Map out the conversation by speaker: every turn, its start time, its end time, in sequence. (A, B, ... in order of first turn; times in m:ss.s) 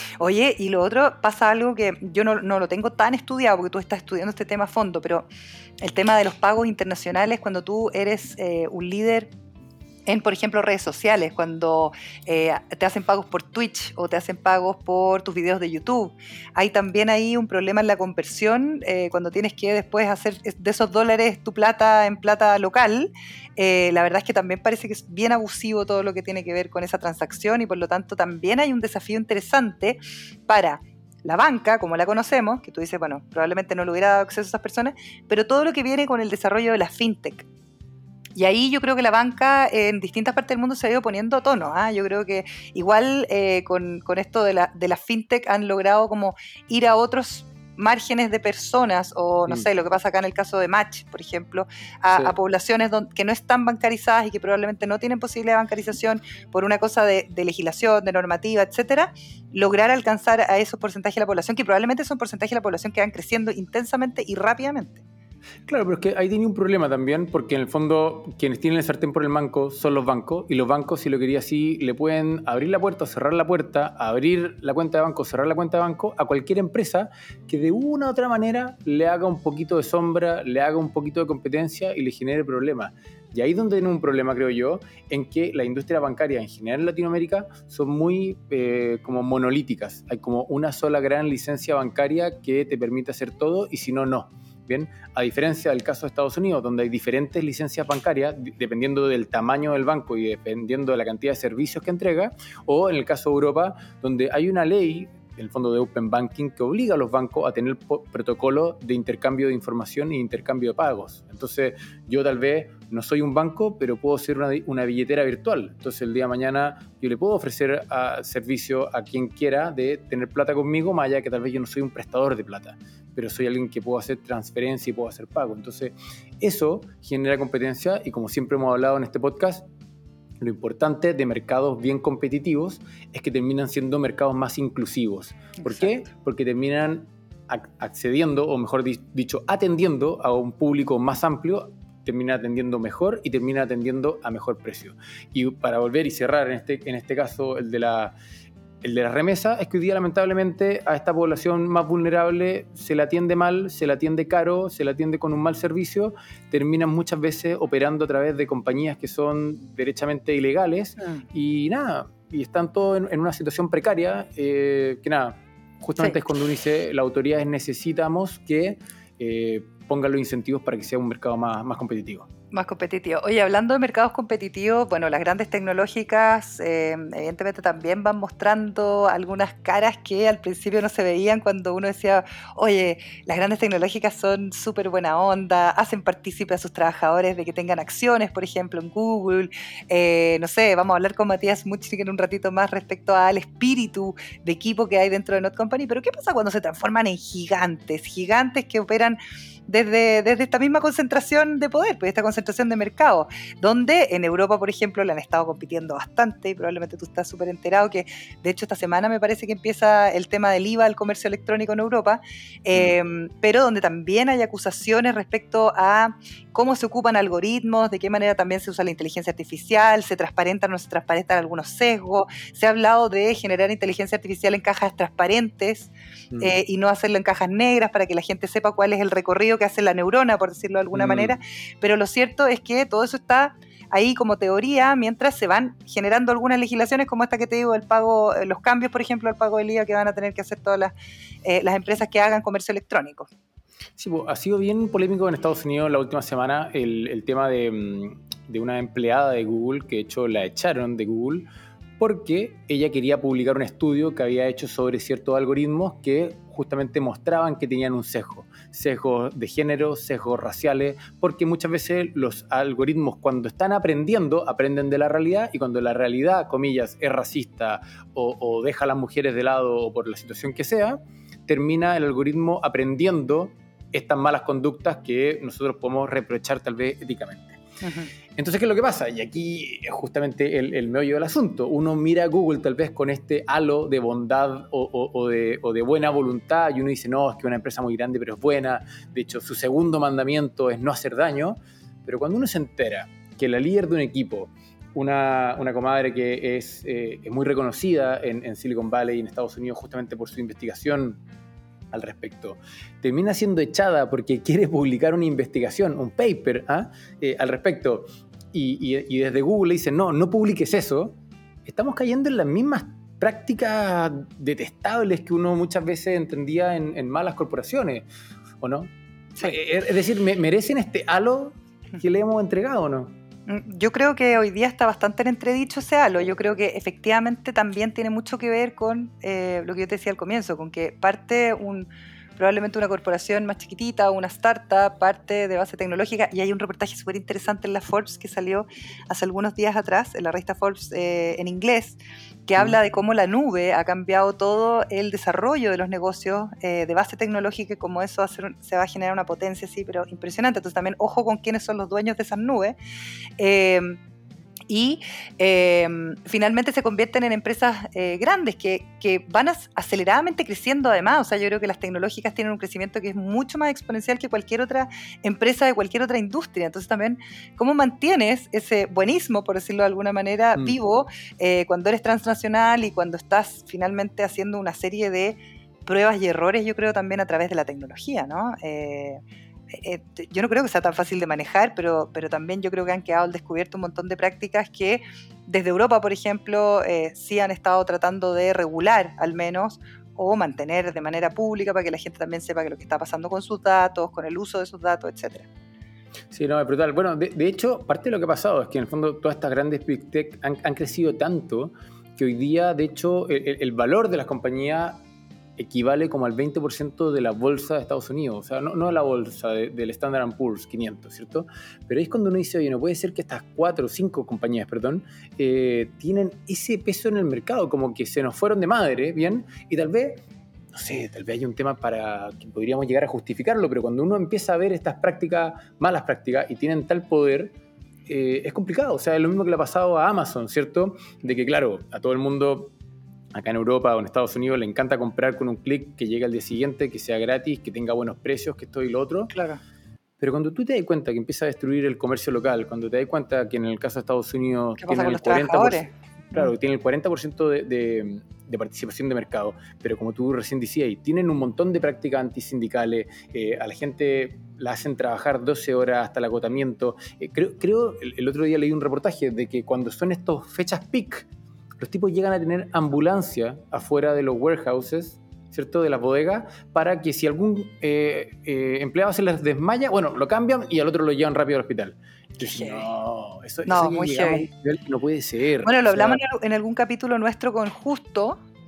0:00.2-0:05.3 A
0:05.8-0:09.3 A
0:10.1-0:37.4 A
0:38.3-1:05.0 A
1:05.7-2:09.6 B
2:10.4-2:28.1 B
2:15.6-2:16.0 A
2:28.8-2:52.3 B
2:52.5-4:00.9 A
3:50.9-3:51.4 B
4:01.4-4:03.3 A
4:04.0-4:11.5 B
4:12.0-4:37.6 B
4:37.8-4:38.1 A
4:38.4-5:01.2 B
5:01.9-5:18.0 B
5:18.6-5:23.1 B
5:23.5-5:52.8 A
5:53.4-5:54.0 A
5:54.7-6:19.2 A
6:19.7-6:35.5 A
6:36.3-6:45.0 B
6:45.6-7:00.2 B
7:00.7-7:07.5 B
7:08.1-7:12.7 B
7:13.3-7:19.3 B
7:19.3-7:19.6 A
7:20.2-7:41.2 B
7:24.8-7:26.5 A
7:41.8-7:56.2 B
7:52.4-7:52.9 A
7:53.6-7:54.5 A
7:55.6-7:58.4 A